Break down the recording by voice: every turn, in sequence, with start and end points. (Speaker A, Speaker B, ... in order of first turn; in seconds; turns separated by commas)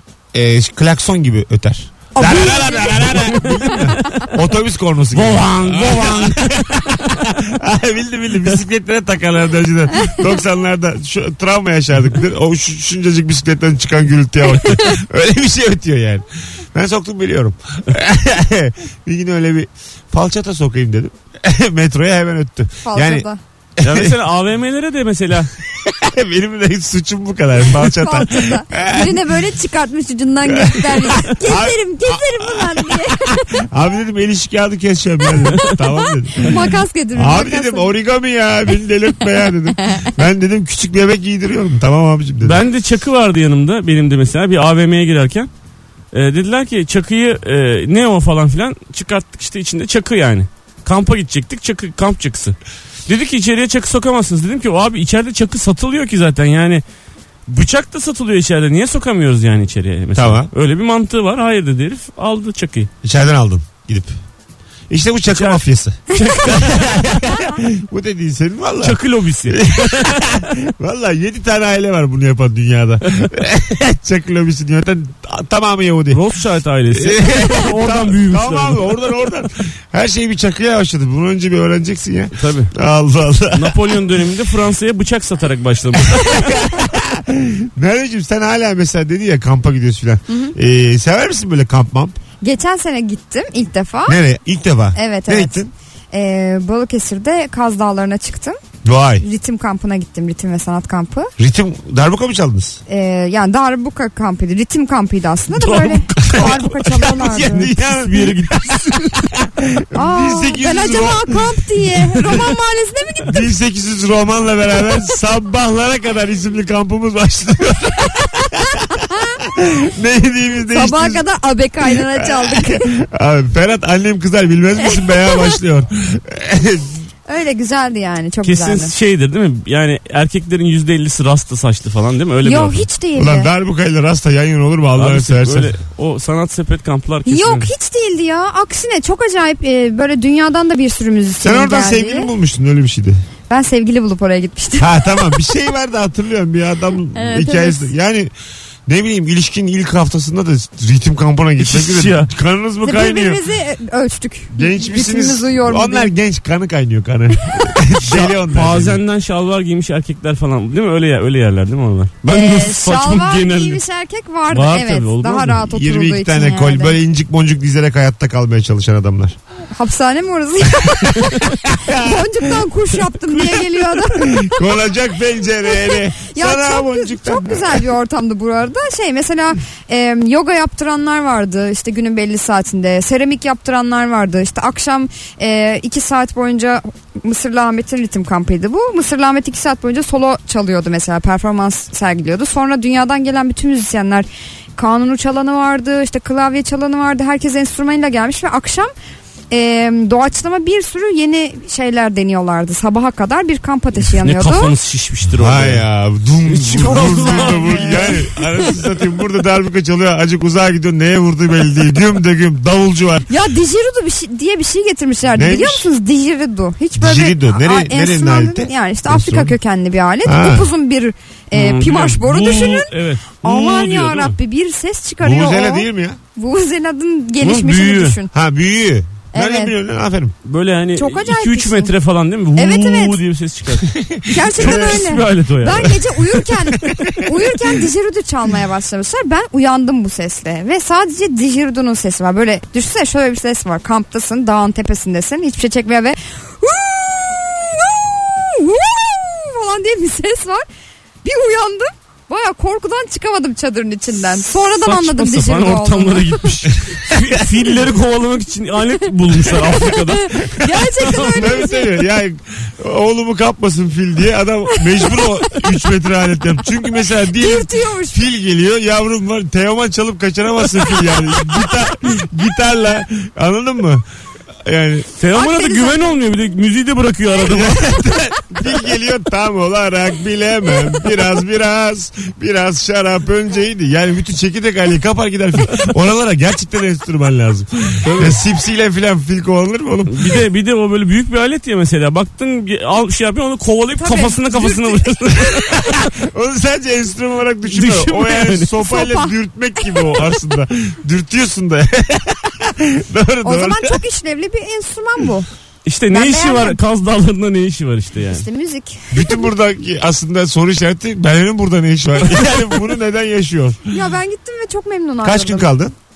Speaker A: 0.3-23.2, Speaker B: 2.1-3.2, Speaker C: 3.1-4.2, Speaker C: 5.1-6.7, Speaker B: 22.8-23.4, Speaker A: 23.8-24.2, Speaker C: 23.8-25.5, Speaker A: 25.7-29.3, Speaker B: 27.8-33.7, Speaker A: 30.4-42.6, Speaker B: 35.2-37.9, Speaker B: 39.8-40.1, Speaker C: 42.4-45.5, Speaker C: 46.1-52.5, Speaker C: 53.1-56.8, Speaker C: 57.5-62.9, Speaker A: 60.1-60.5, Speaker A: 63.0-64.1, Speaker A: 64.9-76.2, Speaker C: 65.3-67.3, Speaker B: 66.1-66.4, Speaker C: 68.8-70.5, Speaker C: 76.1-78.9, Speaker A: 76.9-84.0, Speaker C: 82.3-82.7, Speaker C: 83.5-86.7, Speaker A: 86.0-92.2, Speaker B: 90.3-90.5, Speaker B: 92.4-94.2, Speaker A: 94.1-95.7, Speaker B: 94.9-98.6, Speaker A: 98.8-99.2, Speaker B: 99.2-101.3, Speaker A: 101.4-102.8, Speaker B: 102.9-107.7, Speaker C: 105.5-106.7, Speaker A: 106.2-111.5, Speaker C: 107.9-109.2, Speaker B: 109.9-113.5, Speaker A: 113.3-121.2, Speaker B: 118.7-119.4, Speaker B: 120.7-122.9, Speaker A: 121.8-127.0, Speaker B: 125.0-125.5, Speaker B: 127.3-128.9, Speaker C: 128.4-132.9, Speaker B: 132.4-133.5, Speaker A: 133.2-135.7, Speaker C: 134.9-137.7, Speaker B: 137.2-142.3, Speaker A: 141.4-143.2, Speaker B: 143.5-145.6, Speaker A: 144.8-148.3, Speaker B: 147.1-147.9, Speaker A: 148.9-153.4, Speaker C: 151.6-152.3, Speaker B: 152.8-156.1, Speaker A: 154.5-159.0, Speaker B: 157.4-157.8, Speaker C: 158.0-163.8, Speaker B: 162.3-167.0, Speaker C: 164.5-165.6, Speaker A: 165.6-169.4, Speaker B: 169.7-174.7, Speaker A: 171.1-172.7, Speaker A: 174.1-177.8, Speaker B: 175.7-198.9, Speaker B: 199.5-204.7, Speaker C: 204.0-205.8, Speaker A: 205.3-213.3, Speaker C: 206.4-208.2, Speaker B: 206.8-208.4, Speaker B: 213.3-228.3, Speaker A: 215.3-215.8, Speaker A: 217.0-219.5, Speaker A: 220.2-220.7, Speaker C: 221.5-224.3, Speaker A: 225.2-226.2, Speaker C: 227.4-228.2, Speaker A: 228.3-230.3, Speaker B: 229.3-229.7, Speaker C: 230.4-233.9, Speaker B: 231.0-231.9, Speaker B: 232.6-233.2, Speaker A: 233.9-235.0, Speaker B: 234.2-250.6, Speaker C: 234.5-236.4, Speaker A: 236.9-237.3, Speaker B: 251.2-256.6, Speaker C: 254.5-261.6, Speaker B: 259.4-261.9, Speaker A: 261.0-274.0, Speaker B: 264.8-265.7, Speaker B: 266.9-268.2, Speaker B: 271.3-271.6, Speaker A: 274.6-275.1, Speaker C: 275.2-277.9, Speaker B: 275.3-276.2, Speaker A: 277.4-290.4, Speaker C: 288.0-288.4, Speaker C: 290.1-296.1, Speaker B: 294.0-295.4, Speaker A: 295.5-304.0, Speaker C: 297.7-298.7, Speaker B: 298.8-300.2, Speaker B: 303.4-305.5, Speaker C: 305.8-308.4, Speaker B: 306.1-306.8, Speaker B: 308.3-309.5, Speaker A: 309.1-313.9, Speaker B: 313.9-315.7, Speaker A: 315.2-315.9